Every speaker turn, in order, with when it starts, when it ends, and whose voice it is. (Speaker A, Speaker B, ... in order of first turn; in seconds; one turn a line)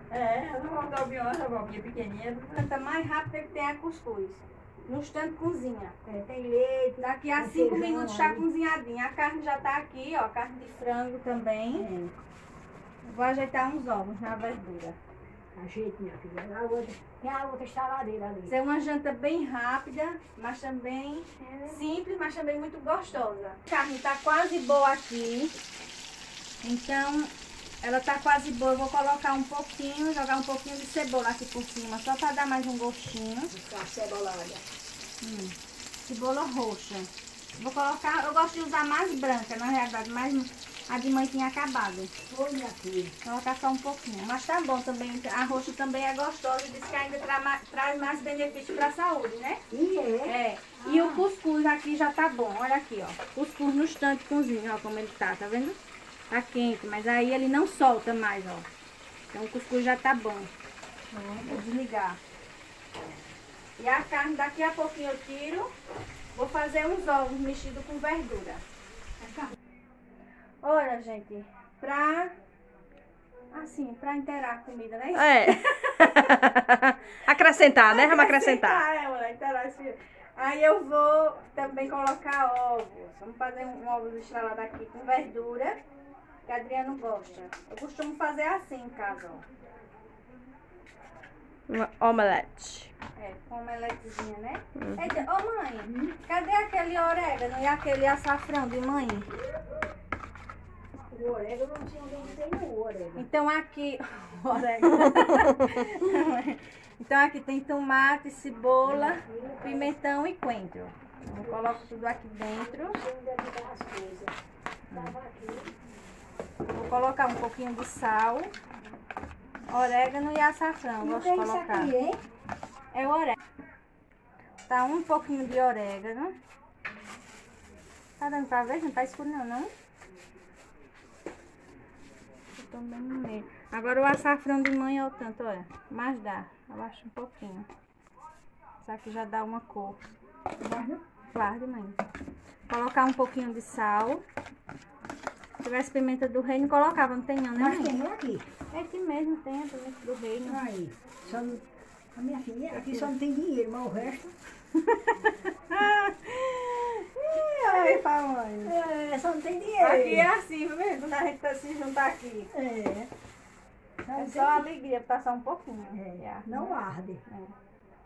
Speaker A: 0.1-2.6
Speaker B: 2.5-6.0
Speaker C: 6.1-8.5
Speaker B: 7.0-11.9
Speaker C: 11.8-12.1
Speaker B: 13.1-15.0
Speaker C: 15.5-18.5
Speaker B: 18.5-25.5
Speaker D: 21.4-21.8
Speaker B: 26.6-27.3
Speaker B: 27.8-33.5
Speaker C: 33.5-34.6
Speaker B: 35.2-42.1
Speaker C: 42.3-43.1
Speaker B: 43.2-49.6
Speaker C: 49.7-51.2
Speaker B: 50.3-55.8
Speaker B: 56.3-58.7
Speaker B: 59.3-60.5
Speaker B: 61.4-62.2
Speaker B: 63.8-65.7
Speaker B: 66.3-68.6
Speaker B: 70.6-72.3
Speaker B: 73.5-75.5
Speaker D: 75.2-78.8
Speaker B: 77.8-85.8
Speaker B: 86.5-89.5
Speaker D: 91.7-92.9
Speaker B: 93.2-99.3
Speaker D: 94.8-95.0
Speaker C: 95.8-96.2
Speaker C: 101.1-103.2
Speaker B: 103.2-113.0
Speaker C: 108.8-109.9
Speaker C: 111.4-111.9
Speaker C: 112.5-114.3
Speaker C: 114.9-115.7
Speaker B: 116.7-118.5
Speaker B: 119.7-121.9
Speaker C: 121.0-122.2
Speaker B: 122.9-123.4
Speaker B: 124.7-126.3
Speaker B: 128.2-129.7
Speaker B: 132.6-137.7
Speaker B: 138.8-140.0
Speaker C: 140.6-141.0
Speaker B: 141.3-142.0
Speaker B: 142.7-144.2
Speaker B: 145.6-148.0
Speaker C: 147.6-148.5
Speaker B: 148.7-150.6
Speaker C: 150.4-151.6
Speaker C: 152.2-154.3
Speaker B: 155.2-158.7
Speaker C: 157.6-158.0
Speaker C: 158.6-160.3
Speaker B: 159.8-162.5
Speaker C: 162.5-163.1
Speaker C: 164.1-164.6
Speaker B: 164.2-167.5
Speaker C: 165.9-167.2